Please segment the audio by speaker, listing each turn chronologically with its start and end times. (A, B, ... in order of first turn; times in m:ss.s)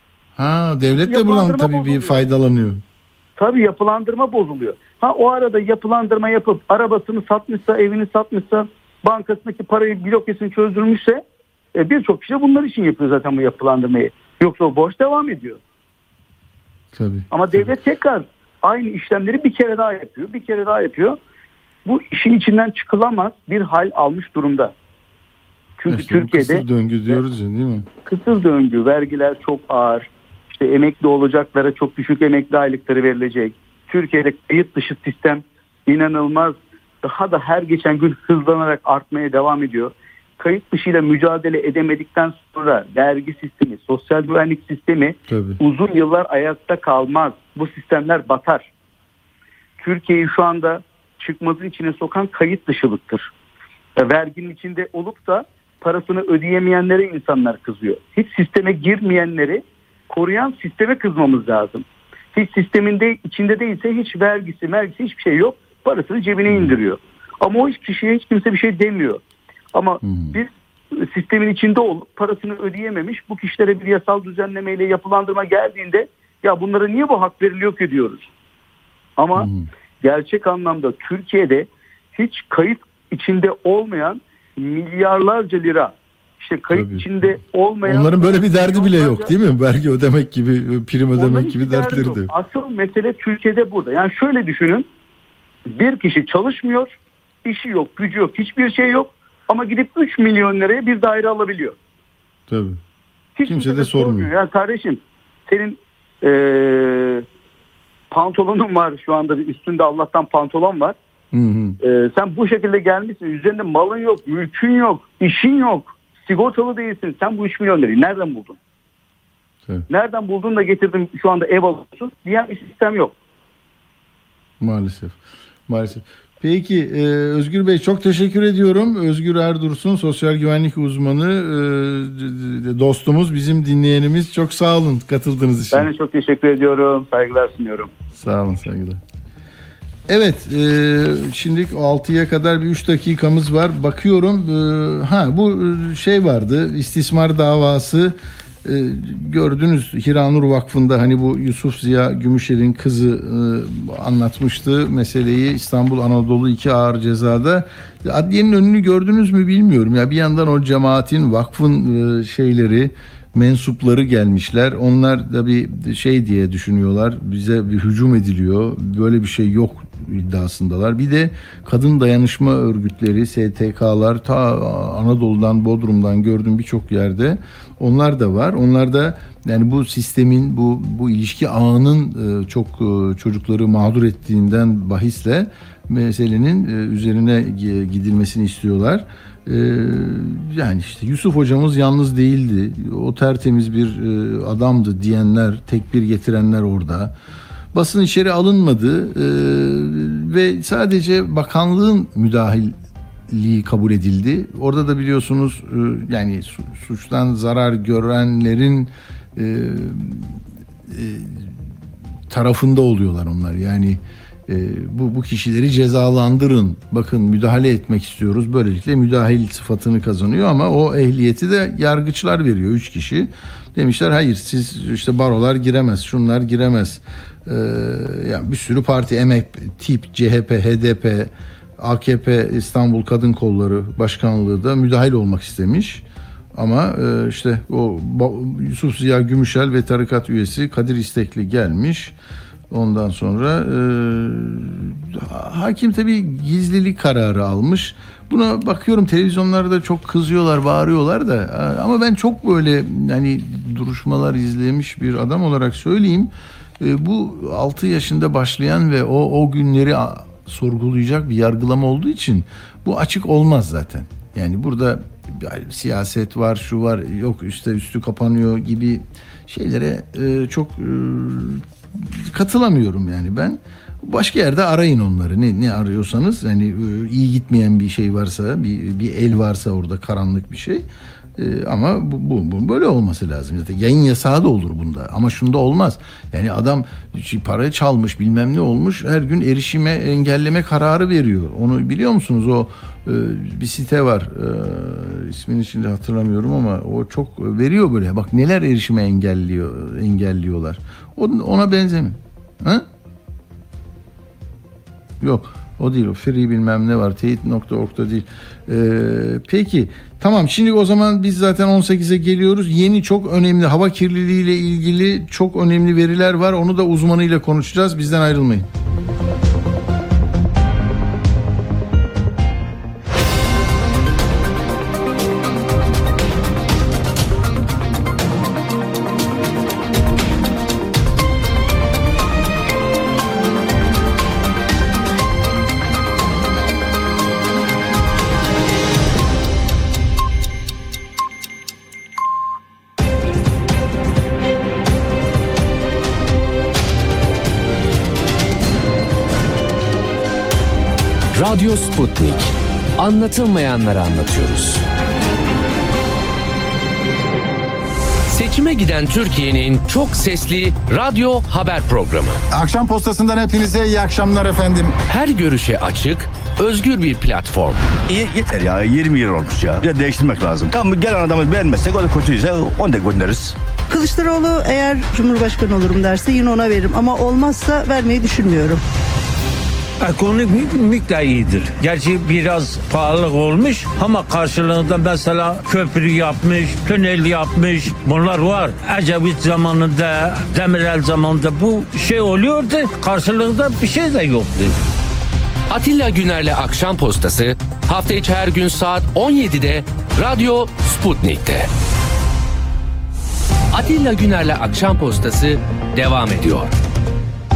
0:00.4-0:02.8 A
0:00.9-0:02.2 B
0:03.4-0:11.2 B
0:11.8-0:15.6 B
0:16.9-0:17.7 A
0:17.3-0:21.2 B
0:21.8-0:24.7 B
0:25.8-0:27.2 B
0:25.9-0:27.9 A
0:28.1-0:48.6 B
0:45.3-0:45.6 A
0:49.8-0:53.3 B
0:54.0-1:09.2 B
1:06.5-1:06.8 A
1:09.7-1:18.3 B
1:10.0-1:10.4 A
1:19.2-1:19.5 B
1:19.4-1:19.7 A
1:20.0-1:29.3 B
1:26.7-1:27.3 A
1:27.8-1:32.3 A
1:31.2-1:34.9 B
1:35.7-1:36.9 B
1:37.4-1:41.8 B
1:42.5-1:42.8 A
1:43.4-1:47.2 B
1:43.5-1:44.3 A
1:48.1-1:51.0 B
1:51.3-1:51.8 A
1:51.8-1:58.6 B
1:59.9-2:03.1 B
2:04.6-2:15.9 A
2:15.7-2:17.9 B
2:18.2-2:19.0 A
2:20.1-3:17.1 A
3:17.7-3:22.8 A
3:23.3-3:31.6 A
3:32.3-3:56.0 A
3:56.6-4:02.2 A
4:02.7-4:40.8 A
4:41.4-5:02.9 A
5:05.2-5:18.7 A
5:51.4-5:54.9 C
5:58.3-6:02.4 C
6:02.5-6:05.0 D
6:05.1-6:07.9 C
6:08.1-6:13.6 E
6:13.9-6:18.8 F
6:20.0-6:34.8 G
6:35.7-6:41.7 C
6:43.7-6:46.7 C